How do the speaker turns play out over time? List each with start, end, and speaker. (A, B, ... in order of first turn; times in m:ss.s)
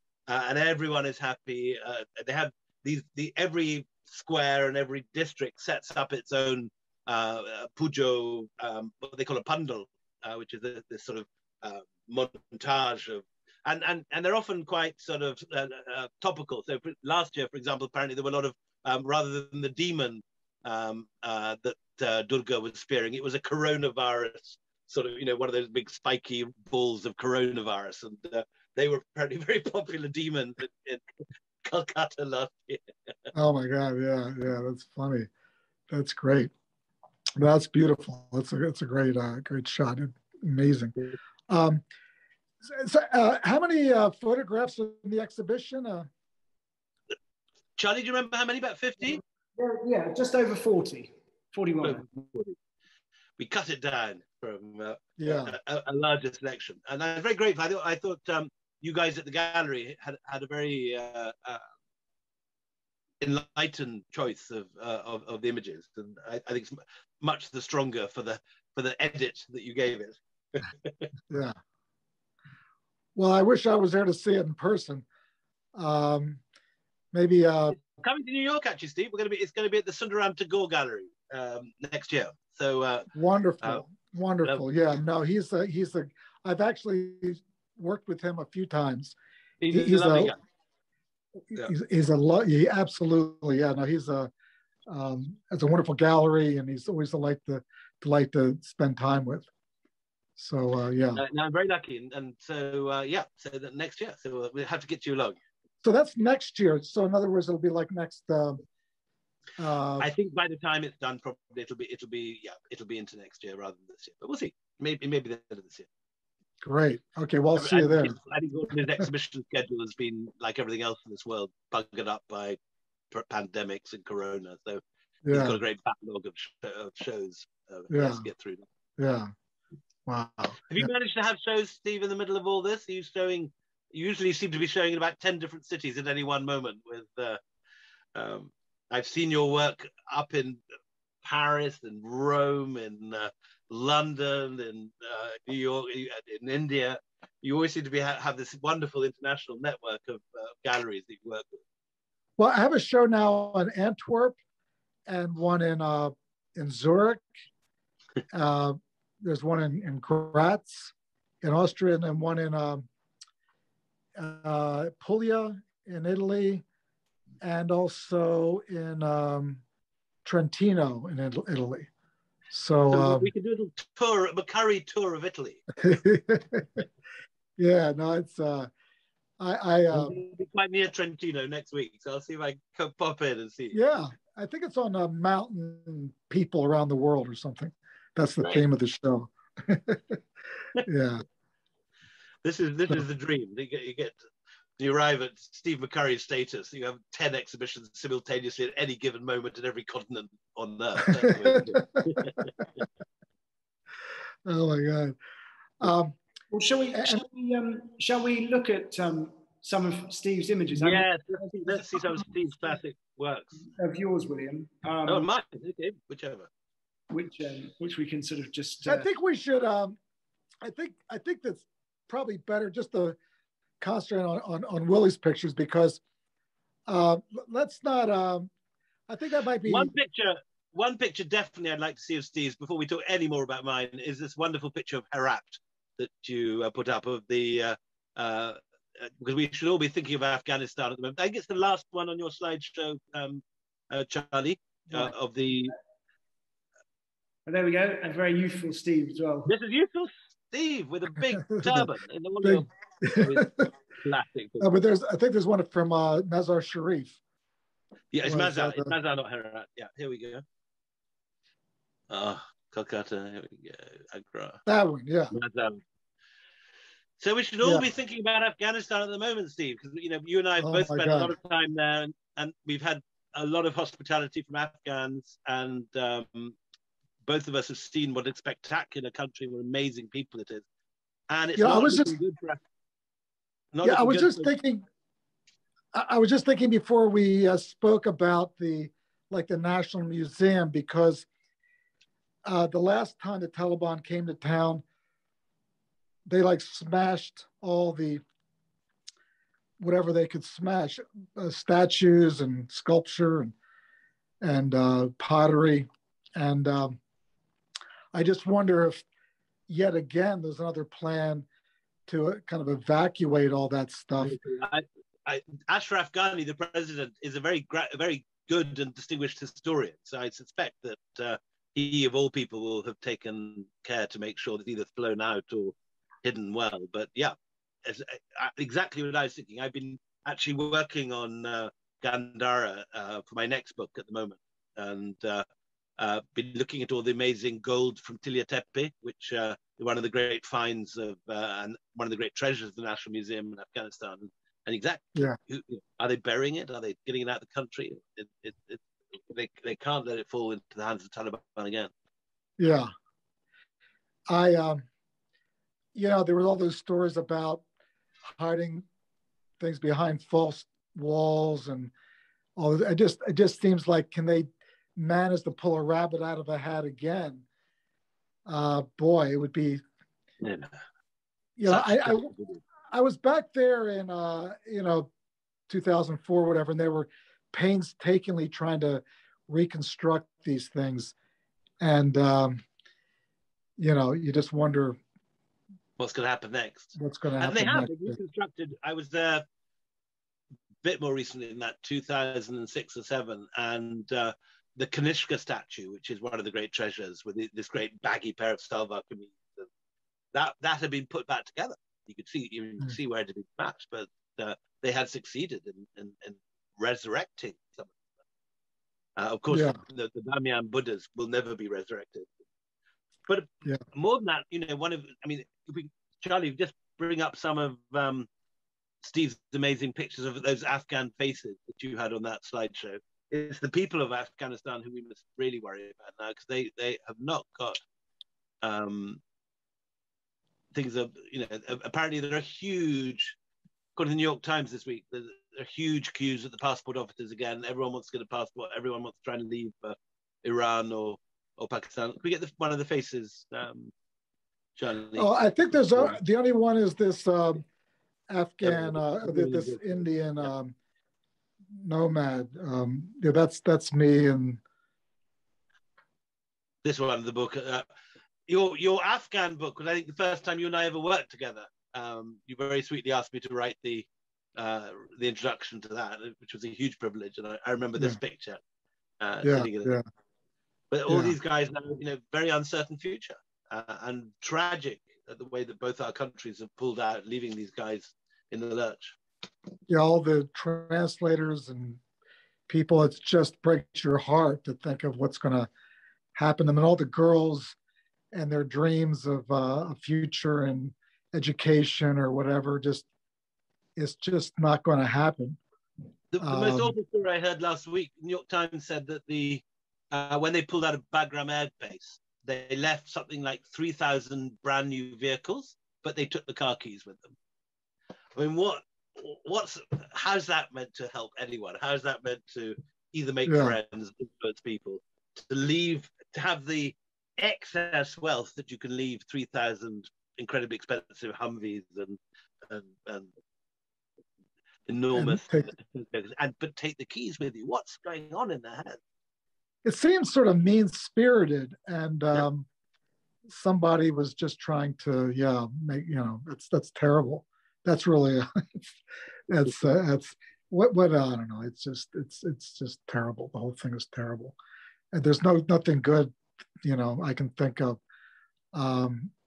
0:00.3-0:31.0 A
0:31.6-0:33.3 A
0:33.3-0:35.3 B
0:35.9-0:36.5 B
0:37.4-0:40.9 B
0:41.5-0:41.8 B
0:42.6-0:46.1 B
0:47.8-0:49.2 A
0:49.6-0:52.0 C
0:51.8-0:52.6 A
0:53.4-1:01.6 A
0:55.2-0:55.6 B
1:03.2-1:11.1 A
1:11.3-1:11.6 B
1:13.2-1:15.0 B
1:15.7-1:16.4 B
1:17.1-1:17.8 B
1:17.8-1:23.1 A
1:23.1-1:29.2 B
1:29.6-1:30.4 A
1:29.7-1:30.3 B
1:31.5-1:34.3 B
1:34.9-1:39.5 B
1:40.4-1:41.2 B
1:41.2-1:45.4 A
1:45.8-1:48.6 B
1:49.6-1:50.1 B
1:50.0-1:55.9 A
1:56.6-1:58.1 B
1:57.6-2:02.6 A
2:03.1-2:08.6 A
2:05.2-2:05.6 B
2:07.9-2:08.2 B
2:09.0-2:09.3 B
2:10.1-2:10.9 B
2:10.7-2:17.4 A
2:18.1-2:20.6 A
2:21.2-2:31.6 A
2:32.4-2:34.4 B
2:35.1-2:37.2 B
2:38.3-2:42.9 B
2:44.2-2:46.6 B
2:47.4-2:49.6 B
2:50.2-2:51.9 B
2:52.5-2:53.3 B
2:52.9-2:55.6 A
2:55.8-2:56.8 B
2:57.6-2:58.7 B
2:59.4-3:00.1 B
2:59.9-3:03.8 A
3:03.7-3:10.2 B
3:10.8-3:11.2 B
3:12.4-3:14.2 A
3:14.8-3:22.8 A
3:21.0-3:22.4 B
3:24.4-3:25.2 B
3:25.8-3:26.2 B
3:26.5-3:32.3 C
3:26.9-3:27.2 B
3:30.7-3:33.6 A
3:33.6-3:35.3 C
3:35.1-3:36.5 A
3:37.1-3:39.1 C
3:38.8-3:40.0 B
3:40.6-3:43.2 B
3:43.8-3:46.0 B
3:46.9-3:48.5 B
3:49.1-3:49.9 B
3:49.6-4:05.7 A
4:07.4-4:09.5 C
4:09.4-4:14.7 A
4:11.5-4:11.9 B
4:12.4-4:13.7 B
4:14.6-4:17.2 B
4:18.1-4:20.4 A
4:18.2-4:18.9 B
4:22.1-4:24.6 A
4:24.6-4:25.3 B
4:25.3-4:25.8 A
4:27.2-4:36.6 A
4:27.6-4:27.9 B
4:30.6-4:31.3 B
4:37.2-4:40.6 A
4:41.3-4:42.6 A
4:41.6-4:42.1 B
4:43.7-4:44.5 A
4:43.8-4:44.8 B
4:45.9-4:51.3 B
4:52.4-4:54.8 B
4:56.2-4:58.2 B
4:59.8-5:03.5 B
5:04.4-5:07.0 B
5:08.1-5:09.0 B
5:09.7-5:11.4 B
5:12.1-5:14.4 B
5:14.2-5:35.4 A
5:36.0-5:51.9 A
5:52.6-5:52.9 B
5:54.3-5:54.9 B
5:55.9-5:57.6 B
5:58.4-5:58.8 B
5:59.6-6:01.9 B
6:02.6-6:07.4 B
6:08.5-6:09.8 B
6:10.4-6:10.7 A
6:11.6-6:12.3 B
6:11.7-6:12.6 A
6:12.9-6:15.1 B
6:15.7-6:21.1 B
6:21.8-6:22.6 B
6:23.8-6:25.0 B
6:26.0-6:29.4 A
6:27.0-6:28.2 B
6:30.8-6:39.7 A
6:40.3-6:47.9 A
6:49.2-6:52.3 A
6:49.5-6:49.8 B
6:53.3-6:58.3 A
6:59.0-7:07.8 A
7:08.6-7:09.2 A
7:10.7-7:13.4 A
7:14.0-7:23.9 A
7:24.8-7:26.2 A
7:25.2-7:27.6 B
7:28.3-7:30.7 B
7:28.6-7:30.0 A
7:31.7-7:34.6 B
7:36.8-7:37.9 A
7:38.5-7:48.6 A
7:49.2-7:50.0 A
7:49.4-7:50.0 B
7:50.9-7:59.2 A
7:51.1-7:51.4 B
7:59.9-8:02.0 B
8:02.7-8:05.7 B
8:06.3-8:07.8 B
8:08.3-8:13.0 B
8:14.0-8:15.6 B
8:16.3-8:27.3 A
8:16.4-8:16.9 B
8:28.3-8:43.3 A
8:33.4-8:33.8 B
8:44.9-8:49.0 A
8:45.1-8:45.7 B
8:49.8-8:52.7 B
8:53.5-9:04.6 B
9:05.1-9:08.0 B
9:08.7-9:09.3 B